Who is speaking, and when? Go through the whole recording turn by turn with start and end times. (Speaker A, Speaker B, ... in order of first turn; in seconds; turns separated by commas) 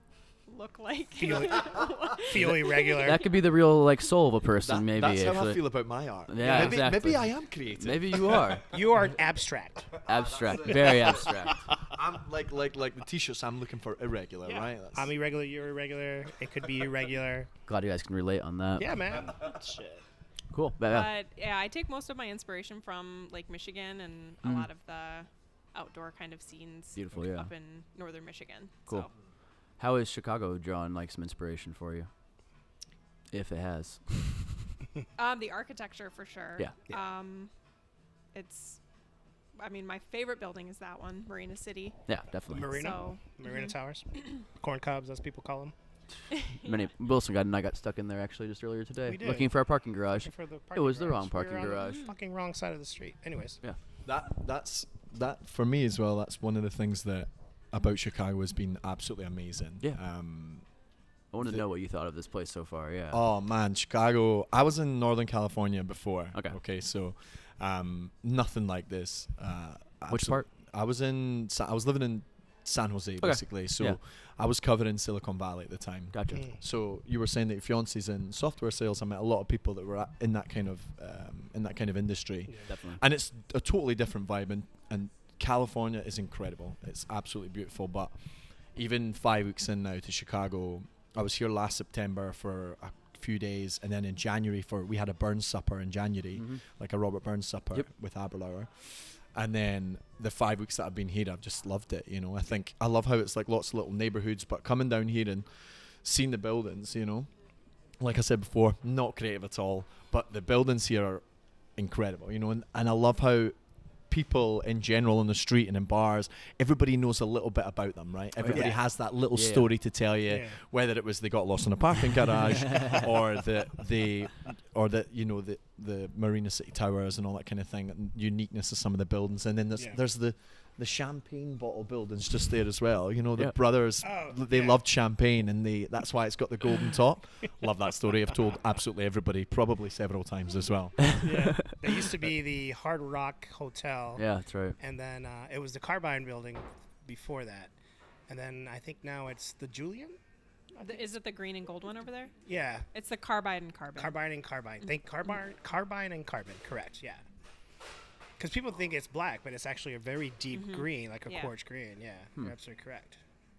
Speaker A: 0.5-3.3, Speaker B: 1.2-3.2, Speaker C: 2.4-5.7, Speaker D: 4.6-8.6, Speaker C: 6.3-8.8, Speaker B: 6.4-6.8, Speaker B: 8.7-10.0, Speaker C: 10.1-11.7, Speaker D: 10.4-15.1, Speaker B: 14.4-17.5, Speaker C: 17.7-19.1, Speaker B: 18.8-20.0, Speaker C: 20.5-21.1, Speaker A: 20.9-29.1, Speaker C: 26.9-27.5, Speaker C: 29.8-32.1, Speaker C: 33.3-34.7, Speaker A: 35.2-37.5, Speaker A: 38.3-38.8, Speaker A: 39.6-42.0, Speaker C: 42.1-42.8, Speaker B: 42.5-45.8, Speaker A: 42.7-43.7, Speaker A: 46.3-46.8, Speaker C: 46.6-52.1, Speaker B: 49.1-49.6, Speaker B: 50.1-53.6, Speaker A: 51.8-52.1, Speaker D: 54.0-60.6, Speaker C: 61.3-63.2, Speaker D: 63.1-88.1, Speaker C: 70.1-70.5, Speaker C: 73.2-74.0, Speaker C: 76.1-76.4, Speaker C: 82.7-83.0, Speaker D: 88.7-107.3, Speaker C: 96.4-96.6, Speaker D: 108.0-111.2, Speaker D: 111.8-113.6, Speaker D: 114.1-141.1, Speaker C: 118.4-118.7, Speaker B: 118.5-118.8, Speaker C: 119.3-119.7, Speaker B: 120.3-120.6, Speaker C: 122.5-123.1, Speaker B: 134.0-134.8, Speaker C: 141.0-142.1, Speaker B: 141.2-144.2, Speaker C: 144.2-144.8, Speaker B: 144.8-147.7, Speaker B: 148.3-150.2, Speaker A: 150.8-152.3, Speaker B: 152.5-152.9, Speaker A: 152.9-154.2, Speaker B: 154.0-157.2, Speaker B: 158.4-163.2, Speaker A: 160.5-161.5